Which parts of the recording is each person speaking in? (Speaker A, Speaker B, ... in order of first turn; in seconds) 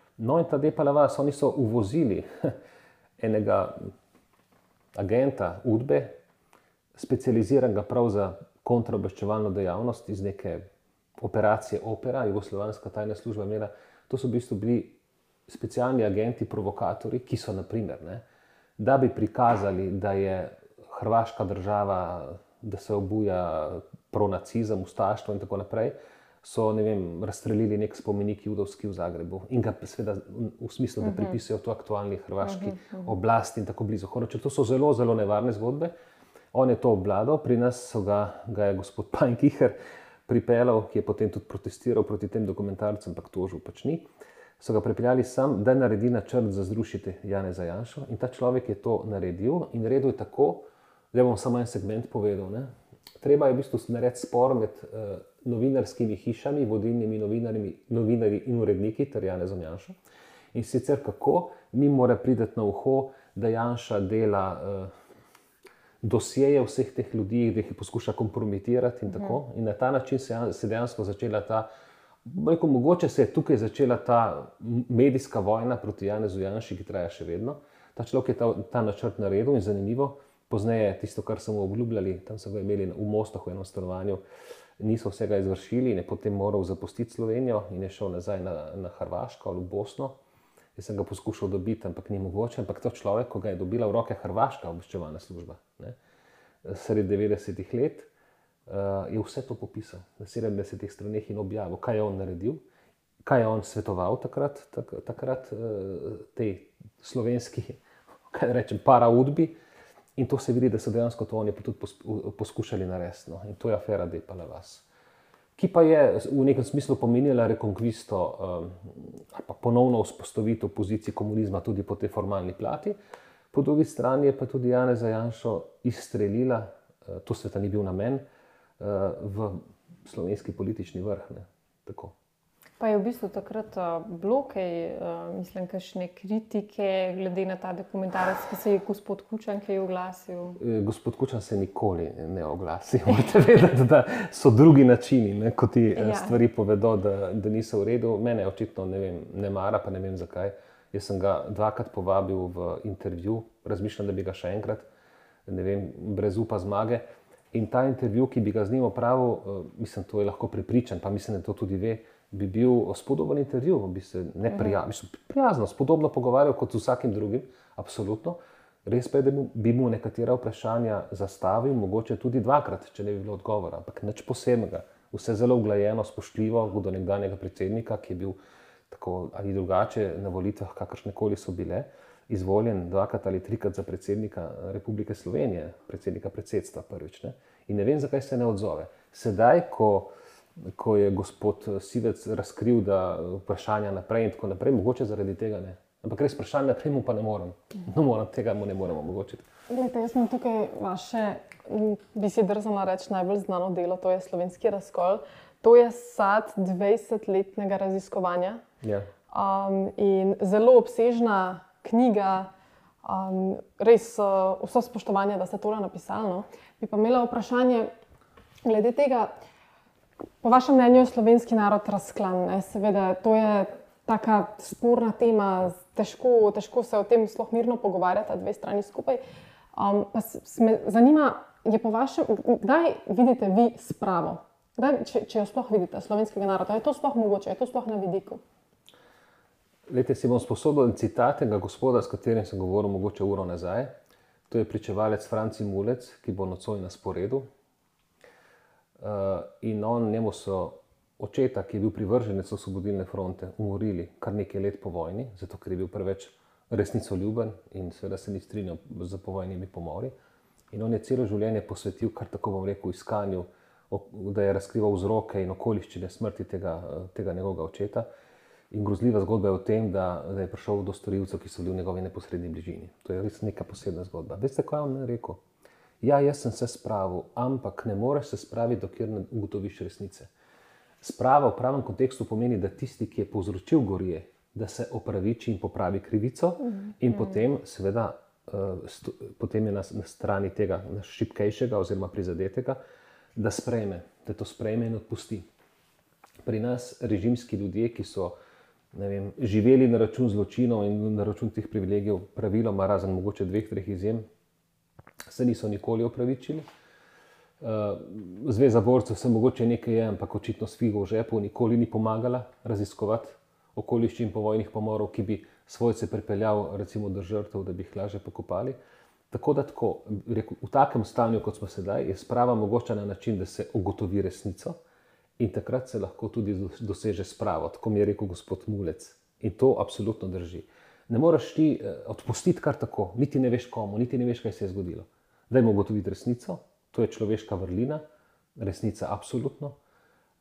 Speaker A: 0.2-2.6, 3.2-3.9, 5.0-6.2, 7.0-10.6, 11.2-18.2, 18.8-35.9, 36.5-39.8, 40.3-44.1, 44.6-60.0, 60.5-64.9, 66.0-71.7, 72.2-84.2, 84.8-90.2, 90.8-96.0, 96.6-98.1, 98.7-102.6, 103.2-109.6, 110.2-114.8, 115.6-123.0, 123.5-128.2, 128.8-132.1, 140.6-154.9, 155.5-178.4, 178.9-190.1, 190.6-199.4, 208.8-209.1, 239.9-243.9, 244.5-247.5, 249.0-260.1, 260.7-268.1, 268.7-275.4, 276.0-280.3, 281.0-292.8, 293.4-295.5, 296.4-298.4, 298.9-304.3, 305.3-306.7, 307.6-318.8, 319.3-324.8, 325.4-338.0, 338.6-339.8
Speaker B: 31.0-31.4, 32.4-33.1, 69.1-69.4, 132.8-140.6, 145.9-146.4
Speaker C: 199.7-208.6, 209.3-212.5, 213.0-217.9, 218.7-219.3, 220.4-229.2, 229.7-238.4